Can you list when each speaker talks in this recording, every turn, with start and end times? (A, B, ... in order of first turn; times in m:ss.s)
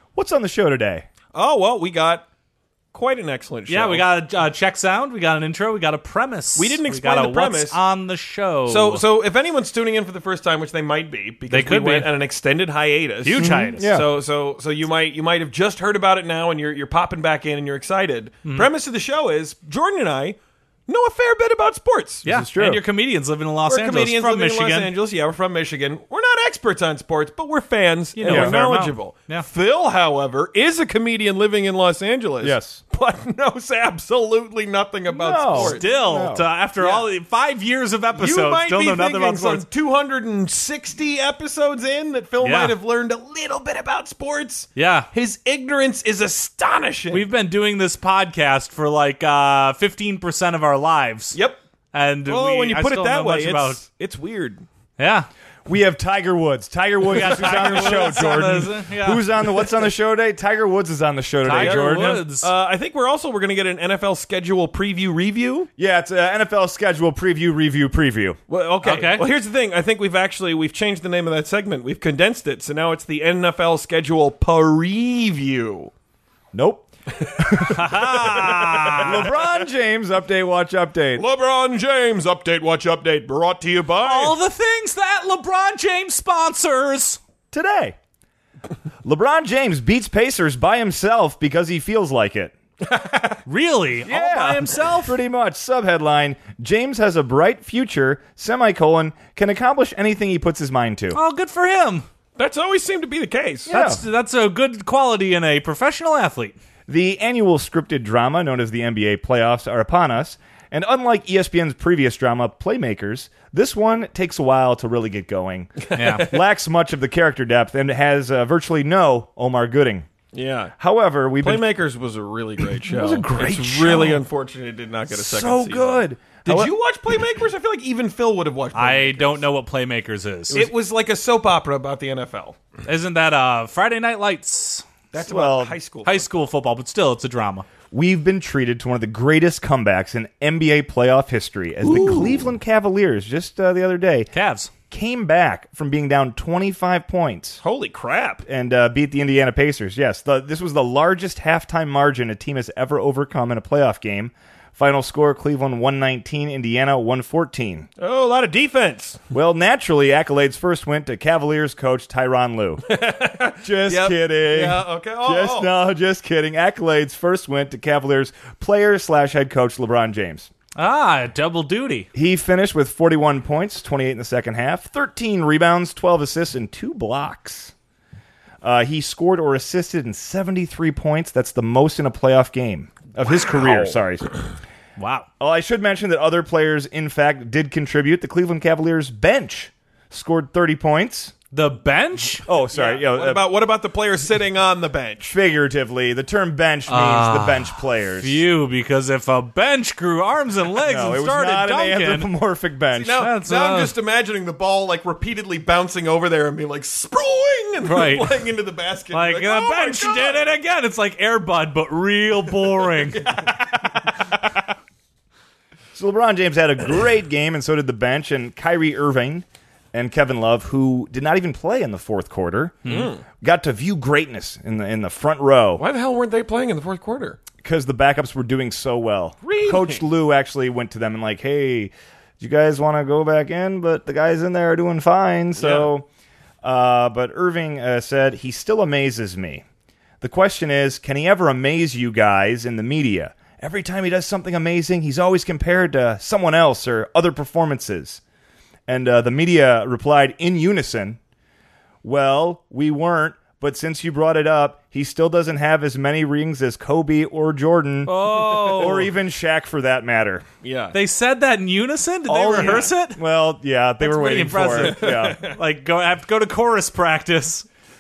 0:00.2-0:01.1 A
0:01.3-0:02.2 B
0:02.9-0:04.0 B
0:03.7-0:09.0 C
0:06.6-0:07.8 B
0:08.7-0:22.3 B
0:11.5-0:12.1 C
0:13.2-0:13.9 C
0:13.4-0:14.1 A
0:22.2-0:24.9 C
0:22.2-0:22.8 A
0:23.7-0:35.9 B
0:28.2-0:29.5 C
0:28.3-0:28.6 A
0:32.4-0:32.8 A
0:35.1-0:36.4 A
0:35.5-0:39.6 C
0:36.8-0:37.1 B
0:38.1-0:47.2 B
0:42.4-0:42.7 C
0:44.8-0:45.1 C
0:47.1-0:51.4 C
0:51.3-0:51.6 B
0:51.9-0:53.8 C
0:52.3-0:54.7 B
0:55.0-0:55.3 C
0:55.7-1:02.2 A
0:57.1-0:59.2 C
0:57.2-0:58.5 B
1:01.4-1:02.5 C
1:01.5-1:05.7 B
1:05.8-1:08.4 A
1:08.5-1:15.9 B
1:08.8-1:09.3 C
1:16.5-1:18.0 A
1:17.1-1:19.7 B
1:17.7-1:19.3 C
1:19.0-1:21.3 A
1:21.2-1:24.4 B
1:24.0-1:27.2 C
1:27.5-1:28.0 A
1:29.0-1:32.6 A
1:32.8-1:33.4 B
1:33.5-1:35.2 C
1:34.1-1:41.2 A
1:41.1-1:42.1 C
1:42.4-1:43.7 B
1:43.7-1:44.0 A
1:43.7-1:46.6 C
1:46.9-2:00.1 A
1:55.8-1:56.4 B
1:55.9-1:56.3 C
2:00.3-2:00.8 B
2:00.8-2:01.7 A
2:01.4-2:09.4 B
2:02.9-2:04.2 A
2:05.1-2:06.7 A
2:08.8-2:10.7 C
2:10.5-2:12.6 B
2:12.9-2:14.9 C
2:15.1-2:16.2 B
2:15.2-2:15.8 A
2:16.0-2:17.7 C
2:17.9-2:24.3 A
2:21.8-2:22.5 B
2:24.3-2:24.7 C
2:24.9-2:27.6 A
2:27.6-2:28.4 B
2:28.4-2:37.9 A
2:38.0-2:39.2 B
2:39.3-2:42.8 A
2:42.9-2:45.7 B
2:43.6-2:50.5 A
2:50.8-2:52.1 C
2:52.1-2:57.7 A
2:58.6-3:04.3 A
3:03.5-3:04.0 B
3:05.0-3:05.3 C
3:05.4-3:11.3 A
3:11.5-3:12.4 C
3:12.4-3:13.4 A
3:12.7-3:15.3 B
3:15.3-3:18.4 A
3:16.9-3:22.3 C
3:20.8-3:23.2 A
3:23.0-3:30.5 B
3:23.2-3:23.9 C
3:27.9-3:28.3 C
3:29.1-3:33.4 C
3:32.8-3:34.1 B
3:35.9-3:45.8 A
3:42.9-3:43.2 B
3:45.8-3:47.4 B
3:47.6-3:56.1 A
3:49.4-3:50.0 B
3:55.6-3:55.9 B
3:56.6-3:59.6 A
4:00.2-4:08.2 A
4:08.9-4:11.2 A
4:12.0-4:18.2 A
4:18.1-4:19.1 B
4:18.1-4:19.1 C
4:18.7-4:20.4 A
4:20.6-4:21.0 B
4:20.9-4:23.2 C
4:22.3-4:25.4 A
4:22.5-4:22.9 B
4:24.0-4:27.7 C
4:24.7-4:25.6 B